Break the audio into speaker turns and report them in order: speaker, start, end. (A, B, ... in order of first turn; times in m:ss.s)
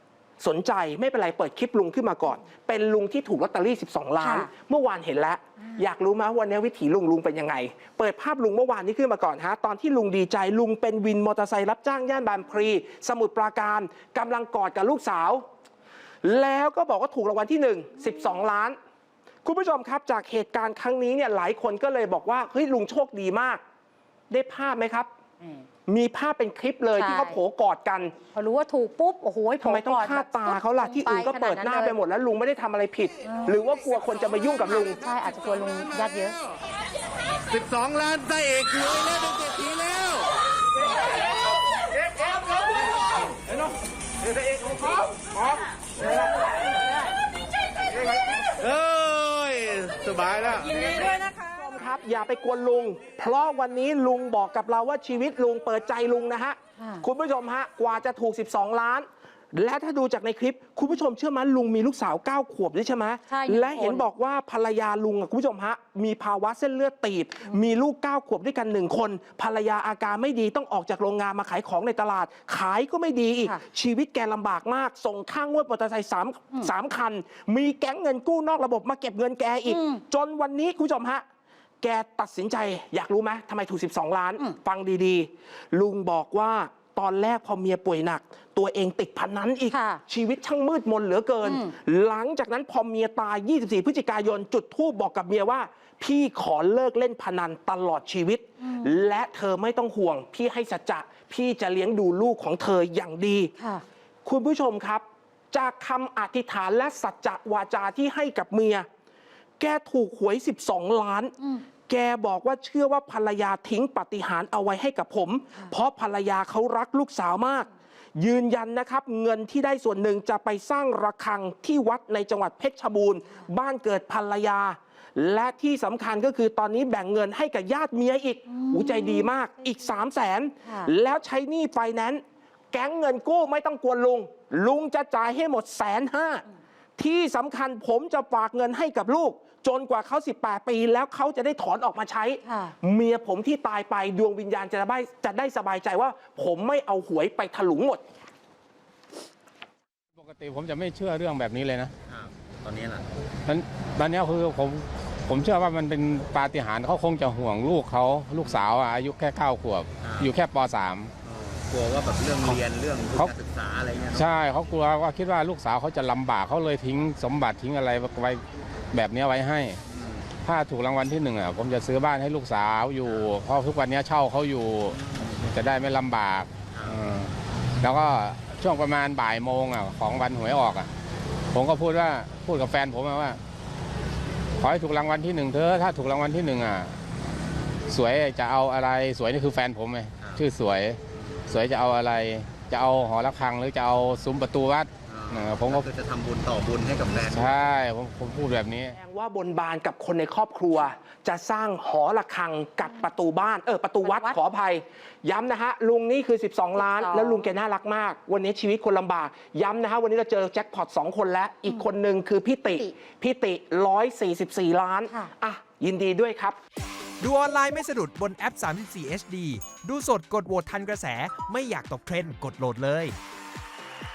0:00.4-0:15.4 A
0:04.2-0:04.5 B
0:16.2-0:18.8 A
0:19.4-0:23.6 A
0:24.3-0:25.1 A
0:25.9-0:28.2 A
0:27.0-0:27.4 B
0:28.3-0:32.0 B
0:29.6-0:35.0 A
0:35.0-0:36.4 B
0:50.7-1:21.2 A
0:56.8-0:57.0 B
1:03.3-1:04.1 B
1:19.7-1:20.0 B
1:21.8-1:43.5 A
1:29.7-1:30.0 B
1:31.4-1:31.7 B
1:43.6-1:43.8 B
1:44.2-1:48.9 A
1:49.6-2:16.4 A
2:08.5-2:09.2 B
2:10.6-2:10.9 B
2:17.0-2:28.0 A
2:22.4-2:22.7 B
2:30.2-2:31.9 C
2:32.1-2:33.0 D
2:33.4-2:41.1 C
2:38.4-2:38.7 D
2:40.0-2:40.3 D
2:41.2-2:44.3 D
2:42.4-2:43.3 C
2:44.1-2:49.8 C
2:49.9-2:50.2 D
2:50.4-3:00.9 C
2:53.0-2:53.3 D
2:54.9-2:55.3 D
2:56.7-2:57.0 D
3:01.5-3:03.4 C
3:04.6-3:07.0 C
3:07.9-3:15.9 C
3:10.2-3:10.4 D
3:11.2-3:11.5 D
3:15.1-3:17.7 D
3:17.2-3:19.0 C
3:18.9-3:36.6 A
3:24.0-3:24.4 B
3:26.8-3:27.5 B
3:37.2-3:43.2 E